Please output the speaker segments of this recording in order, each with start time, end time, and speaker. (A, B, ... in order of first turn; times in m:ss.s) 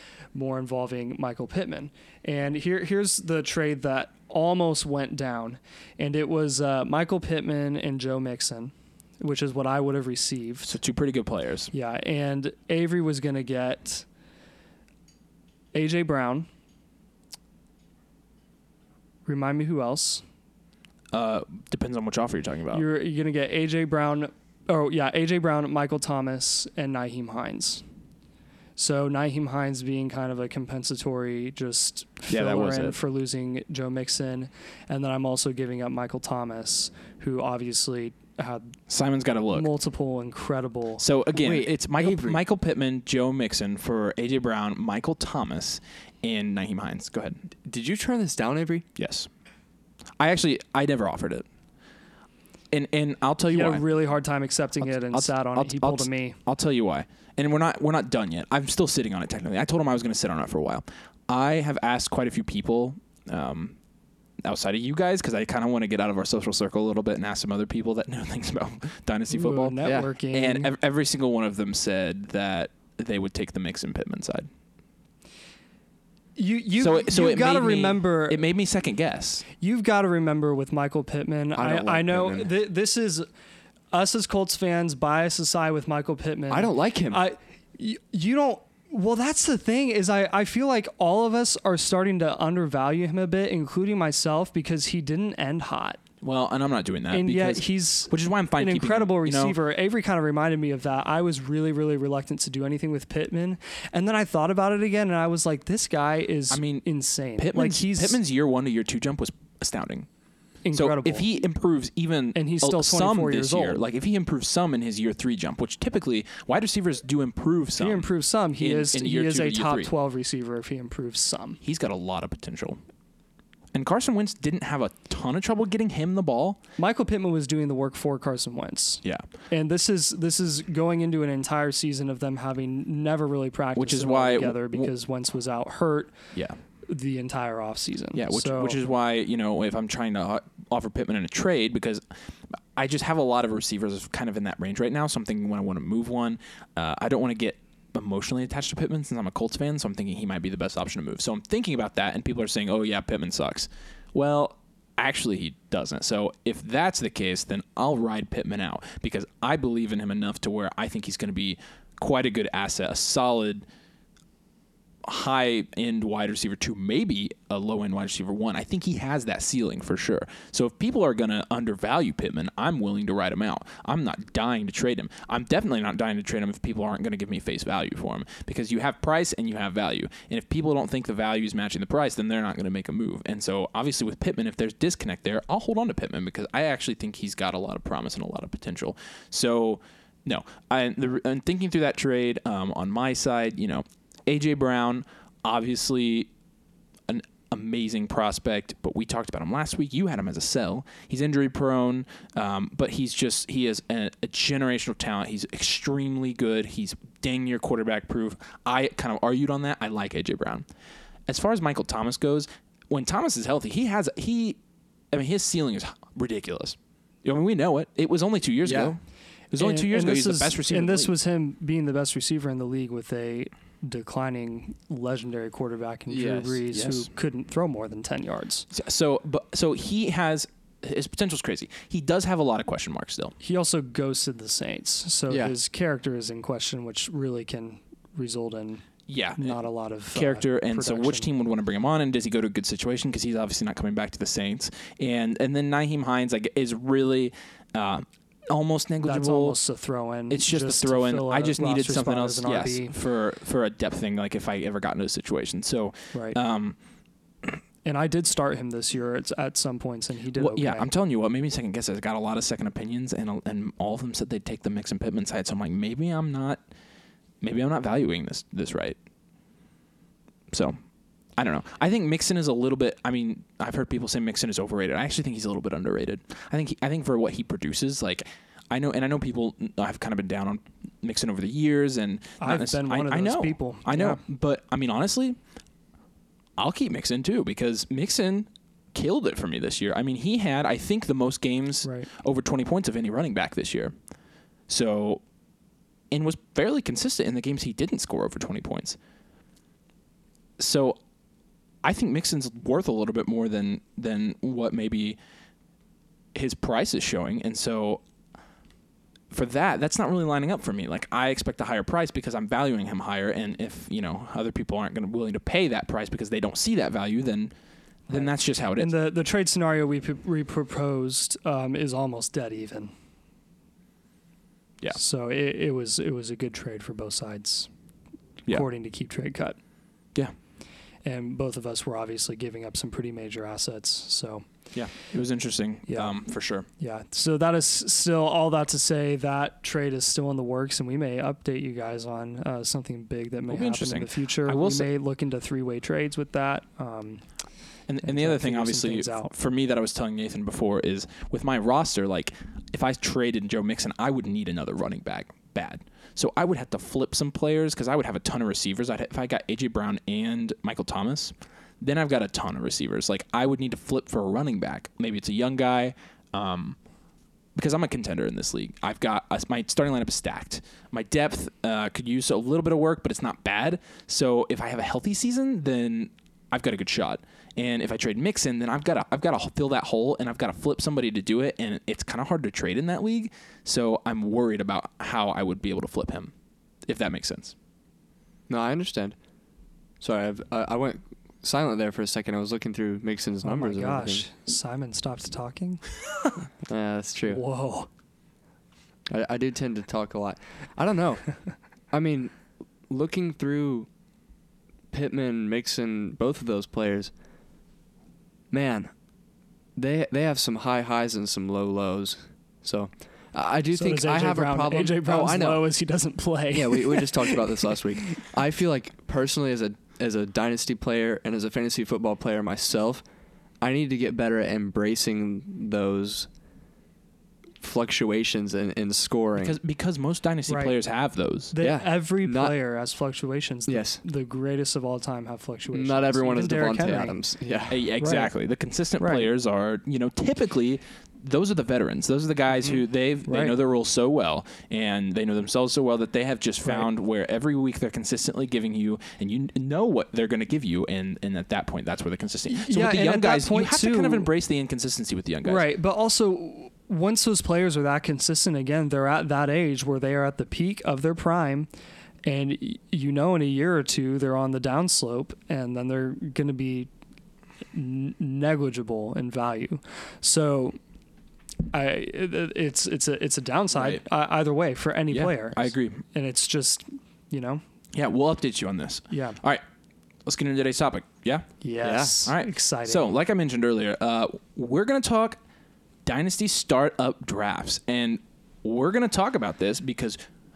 0:00.3-0:10.7 A
0:10.6-0:11.7 B
0:11.7-0:14.0 A
0:15.7-0:16.5 A
0:19.3-0:20.2 A
0:21.1-0:22.8 B
0:22.7-0:27.8 A
0:28.8-0:38.8 A
0:32.3-0:33.0 B
0:38.9-0:39.7 B
0:39.5-0:41.0 A
0:41.0-0:47.4 B
0:41.3-0:42.4 C
0:47.6-0:48.8 C
0:49.0-0:49.3 B
0:50.2-0:51.5 B
0:52.7-0:53.9 B
0:53.5-0:56.4 A
0:54.8-1:03.8 B
1:04.4-1:14.5 B
1:09.3-1:10.7 A
1:09.8-1:10.1 C
1:16.4-1:18.4 A
1:16.8-1:19.5 B
1:19.6-1:23.3 A
1:21.6-1:22.5 C
1:23.9-1:36.0 A
1:26.5-1:27.2 C
1:36.2-1:39.6 B
1:37.1-1:48.2 A
1:46.5-1:46.9 B
1:47.4-1:50.1 B
1:50.6-1:51.3 A
1:50.7-1:59.9 B
1:52.4-1:53.8 A
1:57.8-2:01.6 A
2:01.6-2:02.8 B
2:03.7-2:06.6 B
2:06.8-2:16.3 A
2:13.8-2:14.9 B
2:16.9-2:18.8 A
2:18.2-2:22.0 B
2:22.8-2:43.6 B
2:45.1-3:16.3 B
3:17.1-3:30.6 B
3:31.3-3:34.6 B
3:35.1-3:39.0 B
3:38.6-3:38.9 C
3:39.5-3:41.1 B
3:39.6-3:48.7 A
3:46.1-3:46.6 C
3:46.7-3:47.1 B
3:48.7-3:53.3 B
3:53.4-4:01.3 A
3:55.3-3:55.5 C
3:59.1-3:59.6 B
4:00.1-4:09.6 B
4:09.0-4:13.0 A
4:10.3-4:16.8 B
4:17.8-4:20.9 A
4:20.4-4:26.6 B
4:27.4-4:29.0 B
4:30.5-4:30.8 B
4:31.4-4:45.4 B
4:42.4-4:44.2 A
4:46.6-4:53.9 B
4:54.7-4:55.2 B
4:56.1-4:59.0 B
5:00.6-5:01.0 B
5:01.8-5:05.2 B
5:06.3-5:08.0 B
5:09.3-5:17.5 B
5:18.1-5:18.9 B
5:18.2-5:22.9 A
5:25.0-5:27.7 A
5:28.5-5:29.6 A
5:31.0-5:34.5 A
5:34.7-5:36.7 B
5:35.9-5:47.3 A
5:43.5-5:44.9 B
5:47.9-6:06.8 B
5:48.0-5:49.3 A
6:07.6-6:26.3 B
6:26.9-6:27.5 B
6:28.5-6:29.2 C
6:30.0-6:34.2 C
6:33.4-6:35.9 A
6:36.7-6:37.4 C
6:37.3-6:37.9 A
6:39.1-6:43.9 C
6:44.9-6:47.1 C
6:48.5-6:49.0 C
6:49.8-6:55.7 C
6:53.7-6:58.2 A
6:56.5-7:03.0 C
7:03.6-7:06.3 C
7:07.6-7:09.5 C
7:09.4-7:11.6 B
7:10.5-7:10.7 A
7:11.5-7:17.2 A
7:11.6-7:12.6 C
7:13.7-7:14.0 C
7:15.7-7:17.8 C
7:17.7-7:35.6 B
7:18.0-7:18.3 A
7:19.0-7:19.3 A
7:22.6-7:23.6 A
7:32.5-7:34.3 A
7:35.4-7:41.7 A
7:42.2-7:46.9 A
7:47.7-7:50.8 A
7:51.7-7:57.6 A
7:53.7-7:54.0 B
7:55.1-7:56.0 B
7:58.0-7:59.6 B
7:59.1-7:59.4 A
8:00.3-8:01.5 B
8:01.6-8:03.1 A
8:01.8-8:02.2 C
8:02.3-8:05.4 B
8:06.0-8:10.2 B